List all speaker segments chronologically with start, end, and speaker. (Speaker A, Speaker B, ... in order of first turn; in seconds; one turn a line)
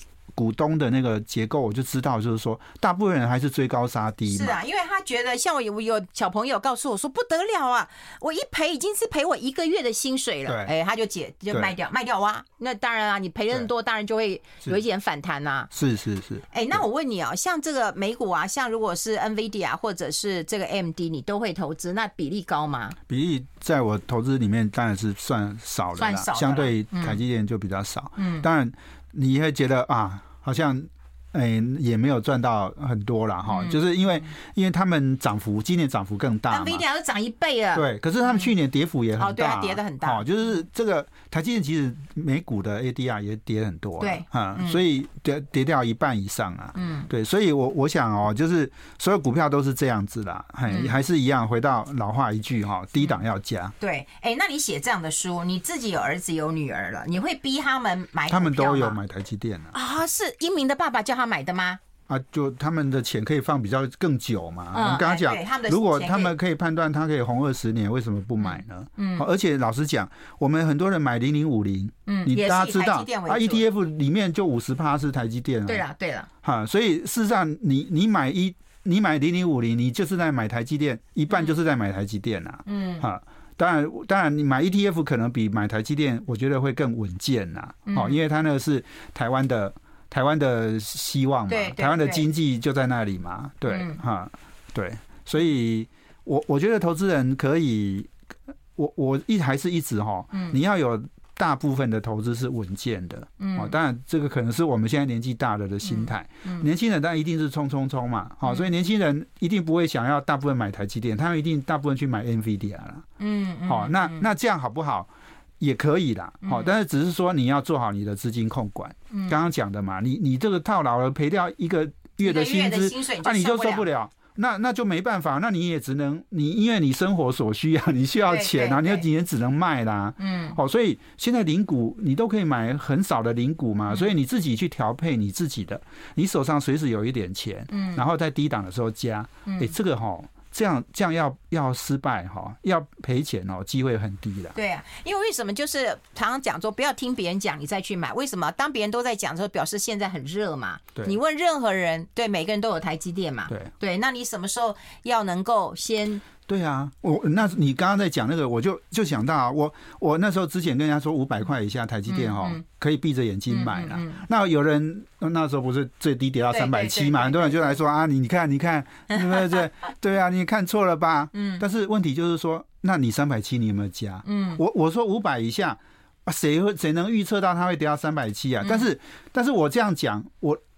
Speaker A: 0.3-4.6
Speaker B: 4.3-15.7
Speaker A: 10.5-10.7
Speaker A: 15.7-16.8
Speaker B: 16.5-23.0
Speaker A: 23.1-36.8
Speaker B: 26.0-27.2
Speaker B: 28.2-28.5
Speaker B: 33.5-33.8
Speaker B: 36.5-38.5
Speaker A: 37.8-53.8
Speaker B: 39.2-40.6
Speaker B: 44.0-44.8
Speaker B: 46.8-47.1
Speaker B: 50.7-51.0
Speaker B: 53.8-59.0
Speaker A: 58.3-59.8
Speaker B: 59.7-61.8
Speaker A: 62.1-75.9
Speaker B: 64.7-66.3
Speaker B: 68.4-69.3
Speaker B: 72.1-73.7
Speaker B: 75.7-76.3
Speaker A: 76.4-98.1
Speaker B: 82.7-83.0
Speaker B: 87.9-88.2
Speaker B: 91.5-92.3
Speaker B: 93.7-94.0
Speaker A: 98.8-113.1
Speaker B: 103.4-103.7
Speaker B: 105.8-106.7
Speaker B: 113.2-114.3
Speaker A: 113.7-144.6
Speaker B: 116.4-116.7
Speaker B: 119.1-119.4
Speaker B: 122.2-123.9
Speaker B: 128.3-129.1
Speaker B: 130.2-130.6
Speaker B: 137.7-138.0
Speaker B: 139.5-139.7
Speaker B: 144.5-156.2
Speaker A: 156.5-180.6
Speaker B: 162.1-162.6
Speaker B: 163.5-164.2
Speaker B: 166.5-167.8
Speaker B: 169.1-169.6
Speaker B: 171.3-171.6
Speaker B: 174.2-174.6